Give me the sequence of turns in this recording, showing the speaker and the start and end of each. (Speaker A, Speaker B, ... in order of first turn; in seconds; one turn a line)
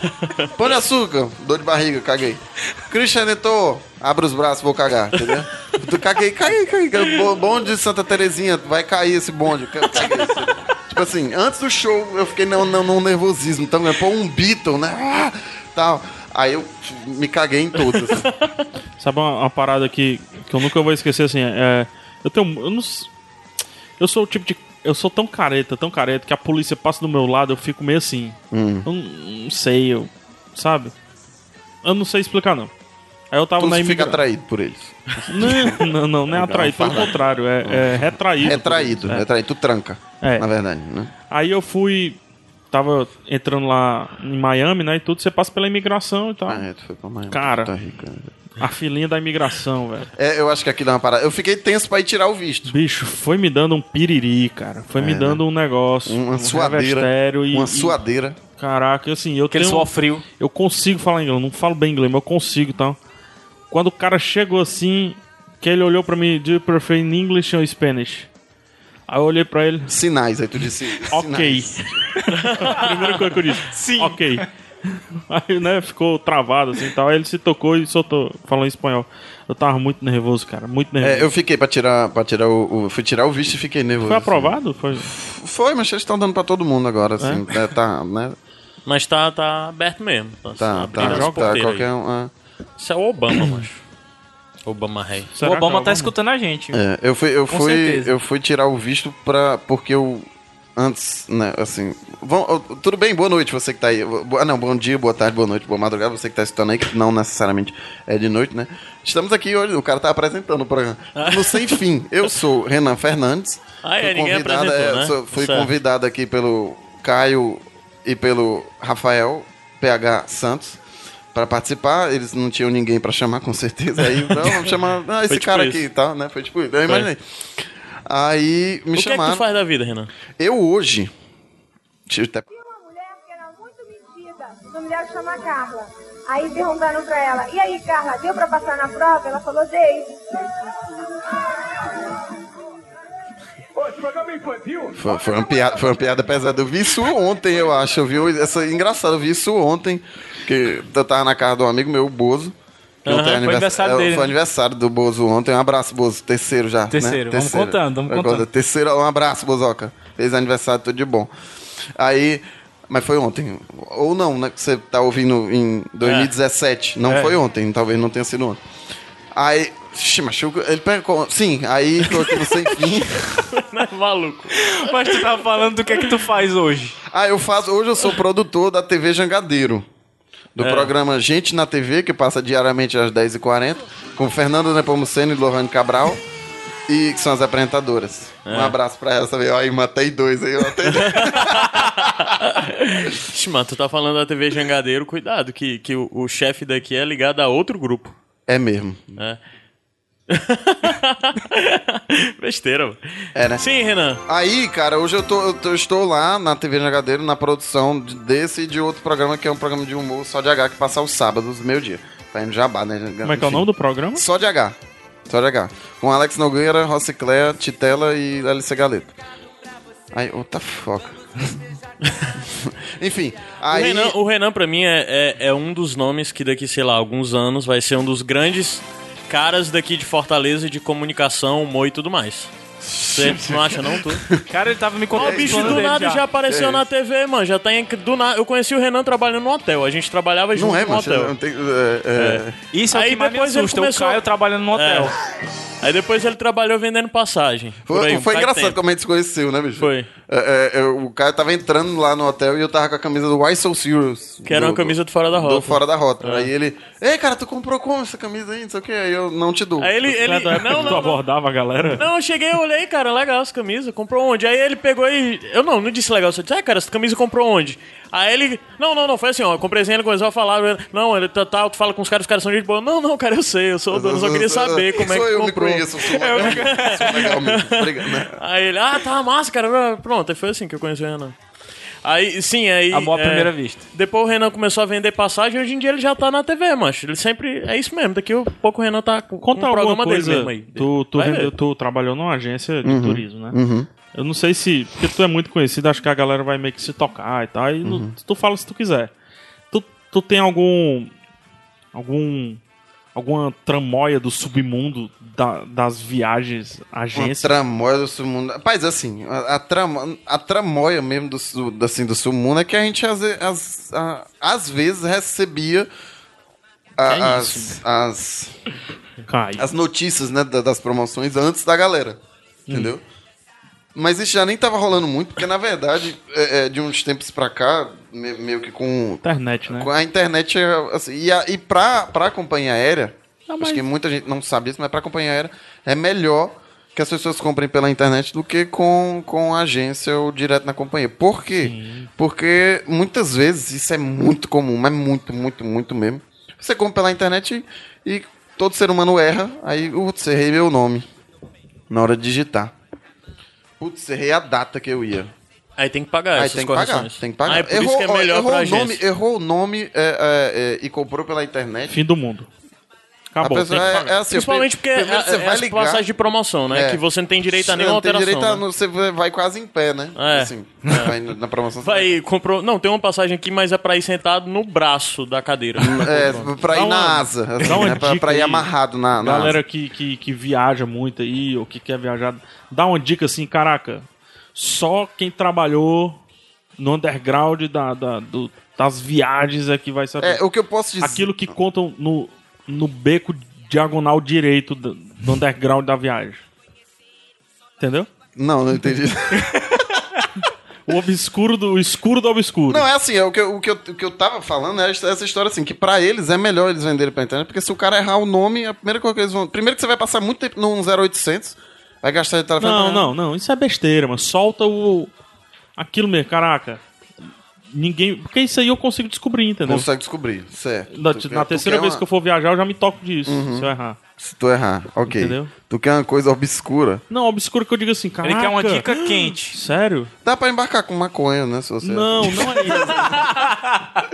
Speaker A: 0.6-18.3
Speaker B: 19.0-23.1
Speaker B: 24.0-30.9
Speaker A: 28.5-28.9
Speaker B: 31.8-32.7
Speaker B: 33.3-34.2
Speaker A: 33.6-41.1
Speaker B: 35.3-39.3
Speaker B: 40.2-40.5
Speaker B: 41.3-42.2
Speaker B: 42.7-46.6
Speaker A: 46.5-48.3
Speaker B: 47.3-47.7
Speaker B: 48.6-50.1
Speaker A: 50.1-52.7
Speaker B: 52.7-58.0
Speaker A: 55.0-55.4
Speaker A: 56.1-58.4
Speaker B: 58.6-63.0
Speaker C: 59.5-60.2
Speaker B: 63.7-68.3
Speaker B: 69.1-69.9
Speaker A: 69.9-72.0
Speaker B: 71.1-71.8
Speaker D: 72.4-73.3
Speaker B: 72.6-81.3
Speaker C: 73.7-74.5
Speaker A: 81.0-88.4
Speaker B: 84.0-85.1
Speaker D: 88.9-91.9
Speaker A: 90.6-92.3
Speaker B: 91.0-91.6
Speaker D: 92.8-93.8
Speaker D: 94.7-95.3
Speaker B: 95.3-96.1
Speaker C: 95.4-96.8
Speaker A: 96.7-120.8
Speaker C: 97.5-98.2
Speaker D: 111.2-111.6
Speaker D: 113.8-115.7
Speaker A: 121.3-127.2
Speaker D: 124.2-124.7
Speaker D: 125.3-125.8
Speaker A: 128.1-129.4
Speaker D: 129.0-130.1
Speaker A: 130.4-131.1
Speaker A: 132.1-132.5
Speaker E: 132.7-140.1
Speaker A: 144.9-152.5
Speaker A: 153.1-161.3
Speaker D: 153.1-153.4
Speaker C: 153.2-154.3
Speaker C: 156.9-158.5
Speaker A: 162.0-168.6
Speaker D: 166.0-166.3
Speaker C: 167.1-167.4
Speaker A: 169.3-173.4
Speaker D: 173.3-175.3
Speaker C: 174.6-177.0
Speaker A: 177.1-179.9
Speaker A: 180.6-186.2
Speaker D: 180.6-180.9
Speaker A: 186.9-191.9
Speaker D: 188.5-188.8
Speaker D: 190.9-198.2
Speaker A: 198.5-199.2
Speaker D: 200.3-204.2
Speaker A: 203.3-203.7
Speaker A: 204.3-214.8
Speaker B: 213.2-214.2
Speaker A: 215.3-219.1
Speaker A: 220.1-221.2
Speaker A: 222.5-224.2
Speaker D: 223.7-232.5
Speaker A: 232.8-234.4
Speaker D: 233.1-234.3
Speaker C: 234.5-236.2
Speaker D: 235.2-241.3
Speaker A: 235.2-235.9
Speaker A: 236.5-236.8
Speaker A: 240.6-242.6
Speaker D: 242.2-245.1
Speaker C: 242.7-245.2
Speaker D: 245.8-248.8
Speaker A: 247.9-260.2
Speaker D: 249.8-250.1
Speaker D: 254.4-256.5
Speaker D: 259.8-261.2
Speaker B: 260.1-262.1
Speaker A: 260.7-261.0
Speaker D: 261.8-281.4
Speaker A: 273.9-278.4
Speaker C: 276.2-277.2
Speaker D: 282.0-291.5
Speaker C: 282.9-283.9
Speaker B: 289.4-293.6
Speaker A: 292.8-293.9
Speaker B: 294.1-299.1
Speaker A: 297.8-298.1
Speaker B: 299.7-301.1
Speaker B: 301.9-302.6
Speaker B: 303.1-307.5
Speaker A: 307.1-315.9
Speaker A: 317.0-318.5
Speaker B: 317.1-317.8
Speaker B: 319.3-319.7
Speaker A: 319.6-322.2
Speaker B: 322.7-322.9
Speaker A: 322.7-323.0
Speaker A: 323.9-351.1
Speaker B: 329.2-329.9
Speaker B: 333.5-333.8
Speaker B: 341.6-342.1
Speaker A: 351.9-352.7
Speaker A: 353.8-355.3
Speaker D: 355.8-359.0
Speaker A: 356.4-362.0
Speaker B: 361.9-362.5
Speaker B: 363.3-364.0
Speaker A: 363.4-366.1
Speaker D: 363.7-368.6
Speaker A: 366.7-372.1
Speaker D: 370.2-371.1
Speaker D: 371.8-376.5
Speaker A: 375.8-379.6
Speaker B: 376.7-378.7
Speaker B: 379.2-386.2
Speaker B: 386.8-390.4
Speaker A: 390.2-391.3
Speaker B: 391.0-396.4
Speaker B: 397.8-398.1
Speaker A: 398.4-399.5
Speaker B: 400.9-402.9
Speaker A: 402.7-413.1
Speaker B: 412.6-415.1
Speaker B: 415.8-416.8
Speaker B: 417.7-419.9
Speaker A: 419.7-422.0
Speaker B: 420.9-424.0
Speaker A: 423.3-427.0
Speaker B: 425.1-425.5
Speaker B: 427.1-430.1
Speaker C: 428.2-429.6
Speaker A: 430.2-433.1
Speaker B: 431.8-433.3
Speaker C: 433.1-433.9